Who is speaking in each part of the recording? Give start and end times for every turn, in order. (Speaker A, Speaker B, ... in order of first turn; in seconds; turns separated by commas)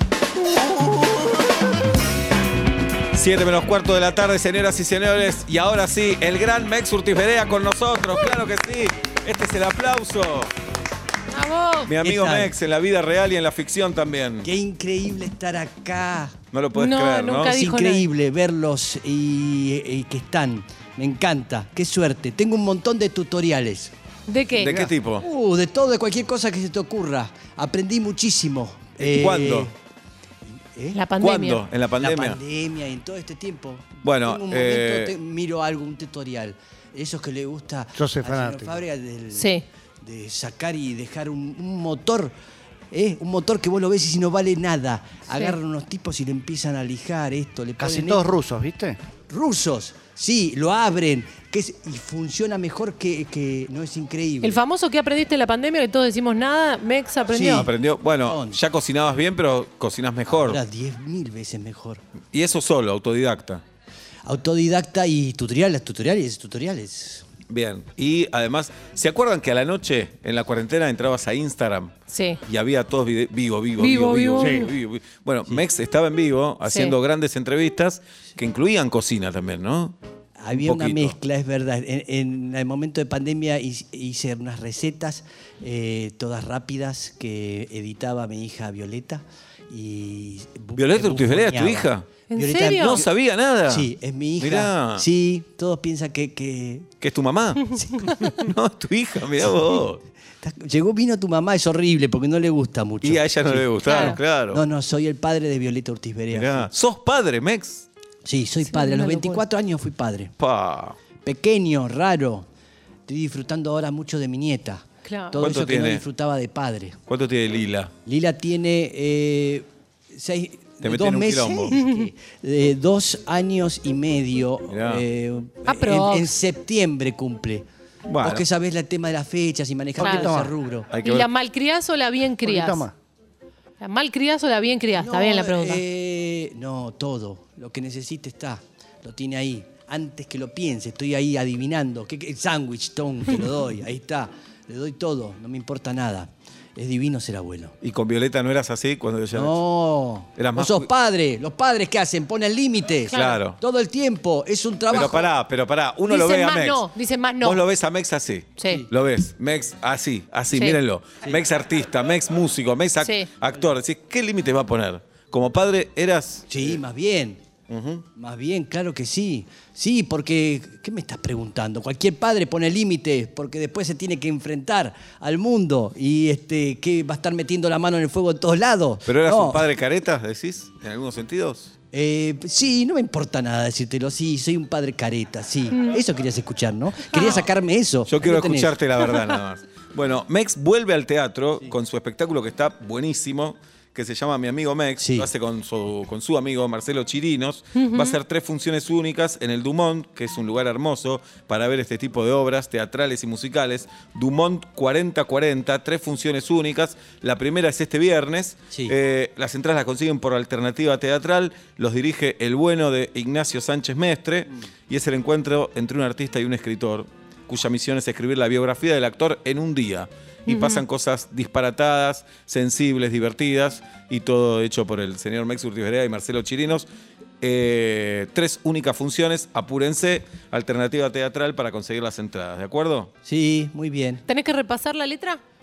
Speaker A: 0.4-1.6, Speaker A: 3.1-10.5, Speaker B: 11.3-11.9, Speaker A: 11.9-14.5, Speaker C: 12.0-12.5, Speaker C: 14.4-16.4, Speaker A: 16.5-17.6, Speaker B: 16.8-18.1, Speaker C: 17.4-23.9, Speaker B: 24.3-24.9, Speaker A: 24.6-25.2, Speaker C: 25.2-29.8, Speaker A: 29.0-29.7, Speaker C: 30.5-31.0, Speaker B: 30.9-31.6, Speaker A: 31.2-32.4, Speaker C: 32.0-42.3, Speaker A: 34.0-35.2, Speaker D: 38.0-38.8, Speaker B: 39.3-39.7, Speaker C: 42.9-48.3, Speaker B: 45.3-45.6, Speaker D: 47.8-49.0, Speaker C: 49.3-54.6, Speaker B: 54.4-57.7, Speaker C: 57.3-57.7, Speaker A: 57.4-60.6, Speaker C: 58.2-58.6, Speaker C: 60.3-62.0, Speaker A: 62.3-63.6, Speaker C: 64.2-67.3, Speaker A: 67.5-80.0, Speaker B: 72.1-72.4, Speaker B: 73.8-74.7, Speaker D: 74.4-74.7, Speaker B: 76.7-77.0, Speaker C: 80.4-93.1, Speaker A: 80.5-81.2, Speaker A: 90.8-92.1, Speaker B: 92.3-93.0, Speaker A: 92.9-95.1, Speaker C: 93.7-96.9, Speaker A: 97.0-100.0, Speaker C: 97.9-98.2, Speaker C: 99.5-99.8, Speaker C: 100.4-106.7, Speaker A: 103.0-104.7, Speaker B: 103.9-104.2, Speaker A: 106.3-107.9, Speaker C: 108.2-110.3, Speaker B: 108.7-109.4, Speaker A: 110.4-111.0, Speaker C: 111.2-112.5, Speaker C: 113.1-117.0, Speaker B: 115.0-115.5, Speaker A: 115.4-116.0, Speaker A: 117.1-117.9, Speaker C: 118.0-127.7, Speaker A: 120.8-121.8, Speaker B: 121.7-122.1, Speaker A: 124.7-125.0, Speaker B: 125.7-126.3, Speaker A: 128.1-128.5, Speaker C: 128.2-130.9, Speaker D: 130.0-130.5, Speaker B: 130.0-130.3, Speaker A: 130.9-131.3, Speaker B: 131.0-132.9, Speaker D: 132.4-132.9, Speaker B: 133.8-135.8, Speaker C: 134.9-147.8, Speaker A: 147.8-149.6, Speaker C: 149.3-155.3, Speaker A: 150.4-150.9, Speaker B: 153.1-153.4, Speaker A: 153.1-153.6, Speaker A: 154.9-156.9, Speaker B: 156.1-157.6, Speaker A: 157.4-166.8, Speaker B: 158.6-158.8, Speaker B: 160.5-160.8, Speaker B: 163.0-163.3, Speaker C: 166.5-167.4, Speaker A: 167.7-168.1, Speaker C: 168.2-179.7, Speaker A: 179.1-181.7, Speaker C: 181.9-188.8, Speaker B: 185.7-186.0, Speaker B: 187.1-187.4, Speaker A: 188.1-226.9, Speaker C: 195.0-195.3, Speaker B: 197.8-198.2, Speaker C: 208.7-208.9, Speaker B: 220.5-220.8, Speaker A: 227.4-233.1, Speaker C: 233.2-234.2, Speaker B: 234.3-235.4